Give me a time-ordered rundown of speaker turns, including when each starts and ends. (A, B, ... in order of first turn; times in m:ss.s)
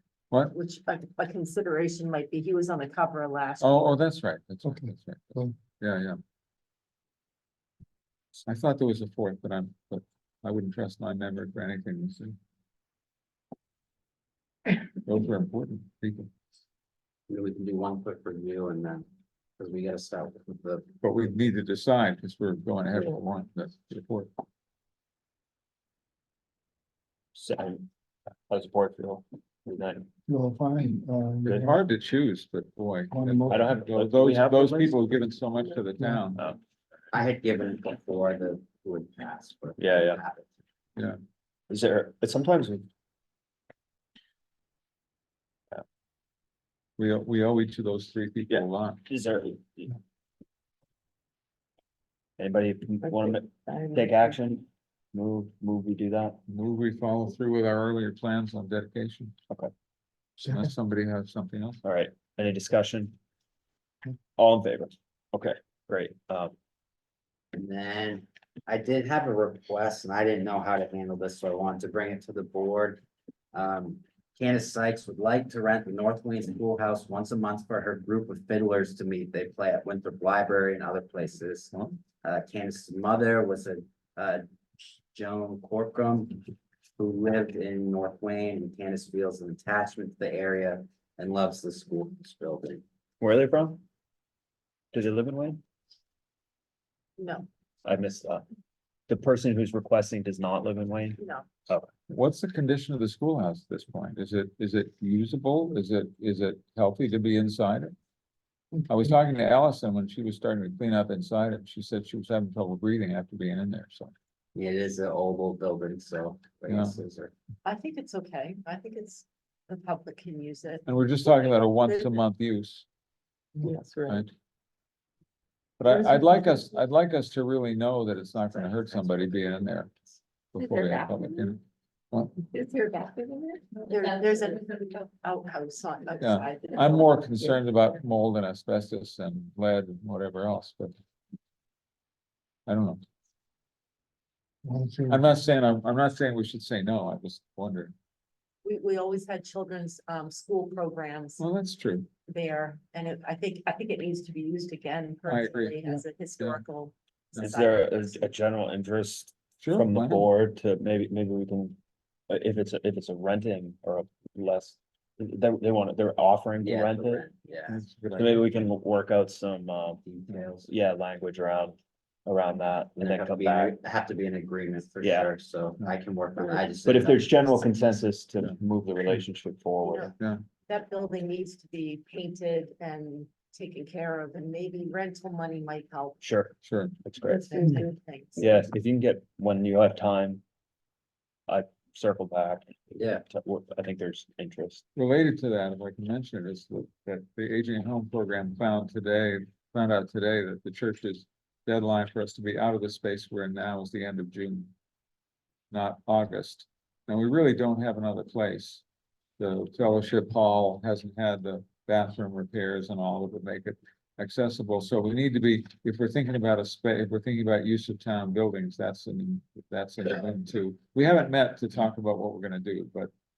0:00.5-0:03.9 A
0:03.6-0:06.2 B
0:04.6-0:05.5 C
0:08.4-0:12.4 B
0:15.0-0:16.3 B
0:17.3-0:19.0 D
0:19.6-0:20.9 D
0:21.0-0:24.3 B
0:27.3-0:27.9 E
0:28.5-0:30.1 E
0:30.3-0:31.8 C
0:31.4-0:36.5 B
0:33.1-0:33.9 C
0:33.5-0:35.0 E
0:36.0-0:36.3 C
0:37.1-0:40.5 D
0:39.8-0:40.2 E
0:41.7-0:42.9 E
0:47.0-0:49.0 B
0:48.5-0:50.0 E
0:52.4-0:56.4 E
0:53.0-0:54.4 F
0:56.5-0:59.4 B
1:00.4-1:00.7 C
1:00.4-1:01.8 B
1:01.8-1:03.2 E
1:04.4-1:06.5 E
1:07.5-1:13.0 D
1:13.5-1:24.4 D
1:21.7-1:22.0 B
1:25.1-1:26.4 D
1:27.0-1:32.8 D
1:33.2-1:33.8 E
1:34.9-1:35.6 E
1:37.2-1:37.5 A
1:37.8-1:38.4 E
1:39.1-1:41.9 E
1:41.2-1:41.5 A
1:42.1-1:47.9 B
1:48.8-1:54.1 B
1:54.5-1:57.3 D
1:56.7-1:56.9 B
1:57.6-2:02.2 A
2:00.8-2:02.8 B
2:03.6-2:04.2 F
2:05.8-2:09.9 B
2:08.5-2:09.5 D
2:10.5-2:11.6 B
2:12.1-2:12.4 B
2:12.5-2:13.8 F
2:13.8-2:17.2 A
2:16.2-2:20.9 B
2:22.7-2:23.0 B
2:24.6-2:25.2 C
2:25.1-2:27.9 B
2:28.6-2:31.4 A
2:31.4-2:32.1 B
2:32.3-2:38.3 A
2:35.3-2:36.6 B
2:37.4-2:41.8 E
2:39.6-2:40.3 B
2:42.3-2:47.2 E
2:46.6-2:47.8 D
2:47.7-2:48.5 B
2:48.1-2:50.0 E
2:50.0-2:50.7 D
2:50.6-2:53.7 E
2:53.0-2:57.6 D
2:55.0-2:55.3 E
2:56.4-3:00.1 E
2:59.8-3:00.1 A
3:00.2-3:00.4 B
3:00.7-3:06.2 A
3:06.2-3:07.4 E
3:06.6-3:07.0 B
3:07.2-3:08.7 F
3:07.4-3:08.4 A
3:08.4-3:10.4 E
3:11.5-3:12.7 E
3:13.0-3:13.2 D
3:13.3-3:14.8 E
3:15.0-3:24.7 B
3:25.7-3:28.8 B
3:29.4-3:43.1 B